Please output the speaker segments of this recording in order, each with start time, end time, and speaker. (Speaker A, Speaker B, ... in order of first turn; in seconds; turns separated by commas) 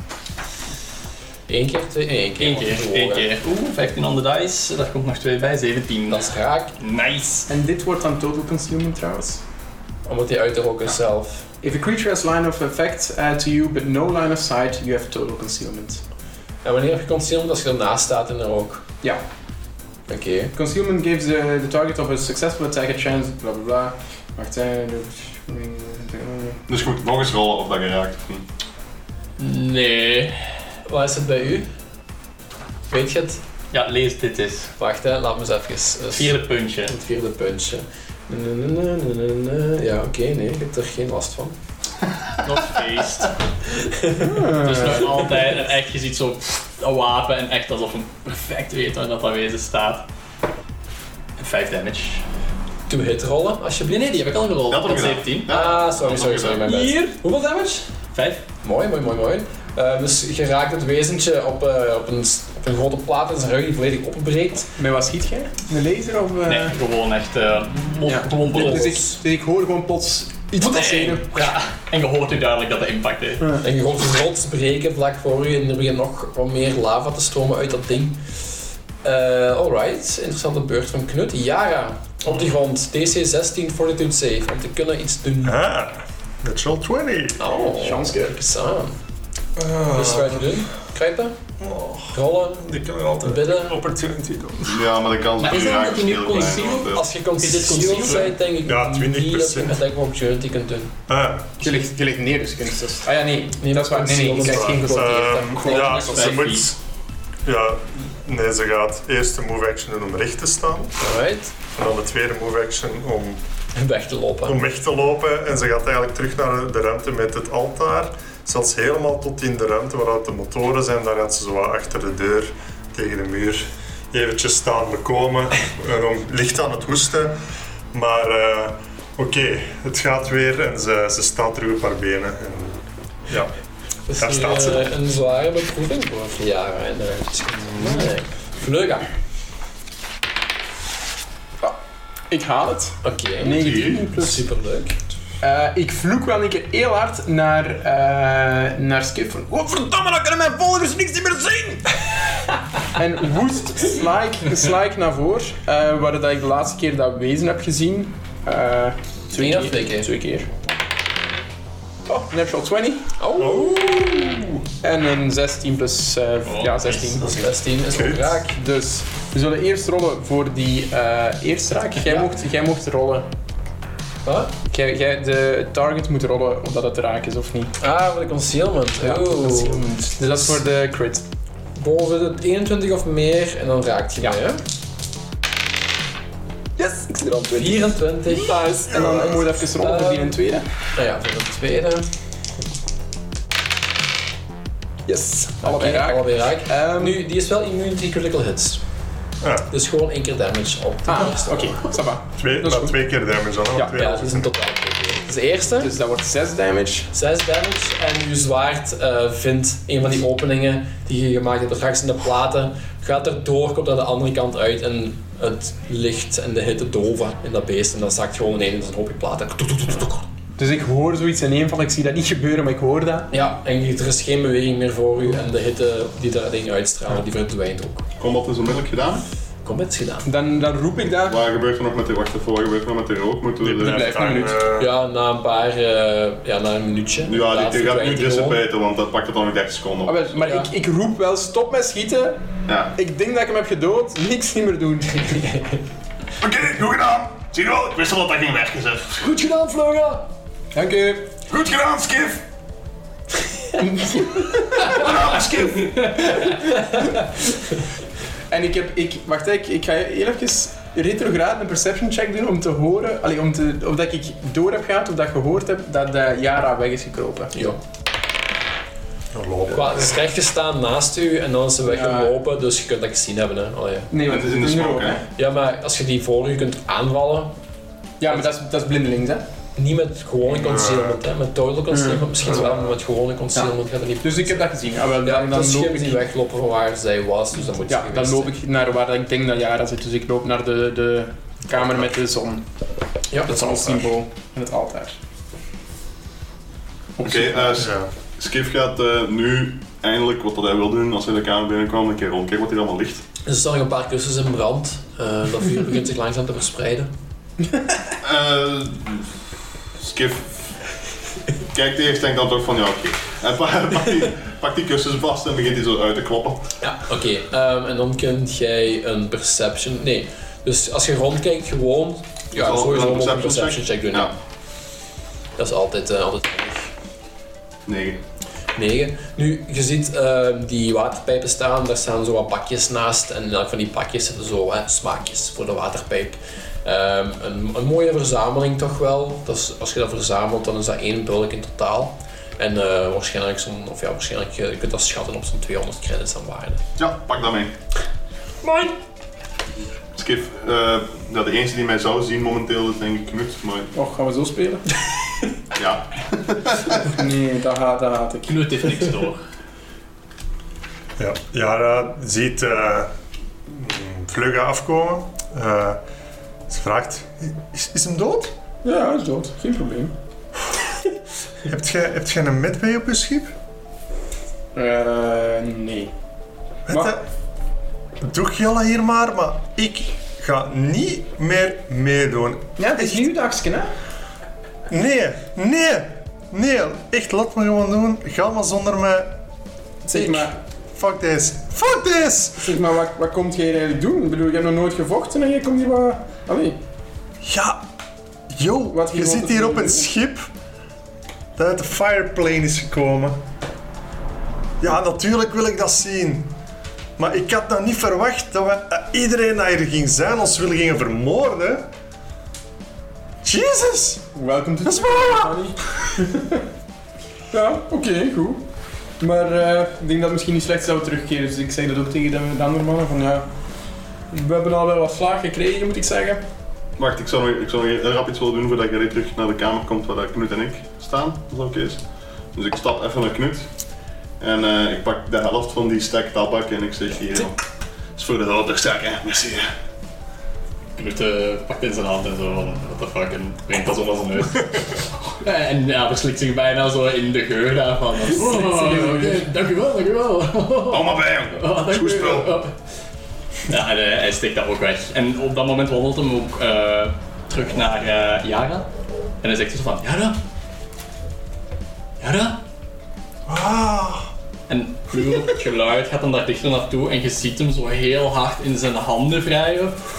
Speaker A: 1.5-3.3, Speaker B: 2.4-7.5, Speaker A: 6.1-6.7, Speaker C: 7.5-9.4, Speaker A: 10.1-11.5, Speaker C: 11.6-16.0, Speaker A: 16.6-18.9, Speaker A: 20.1-20.5, Speaker C: 20.5-26.6, Speaker D: 26.7-28.5, Speaker B: 29.4-30.5, Speaker A: 30.9-31.7, Speaker A: 32.9-33.4, Speaker B: 33.7-34.7, Speaker A: 34.8-41.6, Speaker B: 36.1-36.9, Speaker B: 42.4-43.3, Speaker A: 43.7-45.3, Speaker C: 44.2-45.2, Speaker B: 44.5-50.1, Speaker B: 51.4-52.2, Speaker A: 52.9-54.2, Speaker B: 53.9-55.5, Speaker D: 54.7-56.9, Speaker A: 55.5-57.9, Speaker C: 56.8-57.1, Speaker B: 58.1-58.4, Speaker A: 58.6-64.7, Speaker C: 64.8-66.8, Speaker B: 66.5-68.9, Speaker C: 68.0-71.3, Speaker A: 68.5-69.2, Speaker B: 70.6-73.5, Speaker A: 73.6-78.2, Speaker A: 79.0-85.6, Speaker E: 85.4-87.4, Speaker A: 87.4-89.0, Speaker C: 87.5-88.4, Speaker E: 89.6-90.6, Speaker A: 89.9-91.4, Speaker E: 91.6-94.8, Speaker A: 92.1-92.7, Speaker A: 93.2-93.8, Speaker D: 94.7-97.0, Speaker B: 95.4-98.3, Speaker A: 96.9-100.9, Speaker C: 97.8-98.2, Speaker E: 98.6-99.8, Speaker E: 101.1-101.5, Speaker C: 101.6-106.6, Speaker A: 103.6-106.0, Speaker E: 104.4-106.7, Speaker B: 105.6-106.7, Speaker E: 107.5-111.0, Speaker A: 111.0-111.5, Speaker E: 111.7-113.4, Speaker A: 113.8-114.6, Speaker E: 114.5-127.3, Speaker E: 127.9-133.5, Speaker A: 134.1-139.1, Speaker E: 134.2-134.9, Speaker E: 137.7-138.1, Speaker C: 142.3-144.4, Speaker A: 143.0-145.0, Speaker D: 143.5-144.0, Speaker C: 145.4-152.0, Speaker C: 152.9-160.5, Speaker A: 159.3-160.1, Speaker C: 162.1-163.1, Speaker A: 163.2-164.4, Speaker E: 163.4-164.6, Speaker C: 164.8-167.5, Speaker B: 166.4-167.3, Speaker A: 167.3-168.6, Speaker E: 167.9-168.3, Speaker C: 168.5-173.3, Speaker A: 174.2-174.5, Speaker C: 174.7-177.8, Speaker A: 177.8-179.8, Speaker C: 179.0-181.2, Speaker A: 181.8-184.6, Speaker C: 186.8-190.7, Speaker A: 187.5-190.4, Speaker A: 190.9-192.1, Speaker C: 195.1-197.2, Speaker A: 195.6-198.8, Speaker E: 199.4-199.7, Speaker A: 199.7-201.8, Speaker C: 201.1-203.0, Speaker E: 202.4-204.5, Speaker A: 203.9-205.9, Speaker C: 205.8-207.1, Speaker A: 207.1-220.2, Speaker C: 220.6-223.3, Speaker A: 223.3-228.1, Speaker D: 228.2-229.2, Speaker A: 229.6-230.3, Speaker C: 230.2-231.4, Speaker D: 231.2-234.1, Speaker E: 233.6-234.9, Speaker C: 233.8-234.7, Speaker A: 234.8-238.6, Speaker D: 237.2-240.3, Speaker C: 240.1-242.4, Speaker A: 240.4-240.7, Speaker D: 242.7-242.9, Speaker C: 242.9-245.5, Speaker A: 245.4-245.8, Speaker D: 246.4-249.3, Speaker A: 249.2-250.3, Speaker C: 250.7-251.4, Speaker D: 251.4-252.4, Speaker C: 253.8-255.1, Speaker D: 254.8-256.2, Speaker C: 256.2-257.2, Speaker C: 258.5-267.6, Speaker E: 269.3-270.2, Speaker A: 269.7-274.1, Speaker C: 271.9-272.4, Speaker C: 274.1-275.2, Speaker D: 274.2-275.2, Speaker A: 275.4-277.6, Speaker C: 278.2-279.4, Speaker A: 279.8-288.5, Speaker E: 280.4-281.2, Speaker C: 281.9-282.6, Speaker E: 282.4-282.9, Speaker C: 284.2-286.2, Speaker C: 287.9-292.6, Speaker E: 291.8-292.1, Speaker A: 293.3-293.6, Speaker C: 293.4-295.2, Speaker C: 297.2-297.8, Speaker D: 297.2-303.2, Speaker E: 297.8-298.1, Speaker A: 303.5-307.1, Speaker D: 308.2-309.3, Speaker D: 310.0-310.6, Speaker D: 311.7-316.7, Speaker A: 316.8-324.3, Speaker D: 322.5-324.3, Speaker A: 325.6-326.9, Speaker D: 327.9-328.2, Speaker A: 328.8-346.8, Speaker D: 347.0-347.7, Speaker A: 348.6-348.9, Speaker D: 350.1-353.9, Speaker C: 353.9-354.9, Speaker D: 355.8-357.1, Speaker C: 357.0-358.9, Speaker B: 358.5-359.4, Speaker E: 361.2-363.1, Speaker E: 363.7-366.0, Speaker E: 366.7-368.5, Speaker C: 368.8-370.1, Speaker E: 371.7-373.5, Speaker C: 374.7-376.1, Speaker E: 376.9-377.2, Speaker C: 376.9-377.1, Speaker E: 378.2-383.3, Speaker C: 382.8-383.9, Speaker E: 384.9-389.3, Speaker C: 390.1-390.5, Speaker E: 390.1-392.8, Speaker C: 392.6-396.8, Speaker E: 397.4-397.8, Speaker E: 398.5-400.5, Speaker C: 398.9-400.1, Speaker E: 401.6-403.4, Speaker E: 404.8-406.5, Speaker E: 407.2-411.9, Speaker E: 413.4-414.2, Speaker C: 414.3-416.6, Speaker E: 414.8-415.6, Speaker C: 417.5-418.6, Speaker C: 419.2-423.5, Speaker C: 424.3-426.4, Speaker D: 427.0-433.7, Speaker D: 434.4-437.6, Speaker D: 438.2-439.7, Speaker B: 441.0-452.7, Speaker C: 448.5-449.2, Speaker D: 450.9-452.6, Speaker B: 453.7-458.9, Speaker B: 459.4-460.4, Speaker B: 462.2-462.6, Speaker E: 463.5-464.3, Speaker B: 464.7-470.0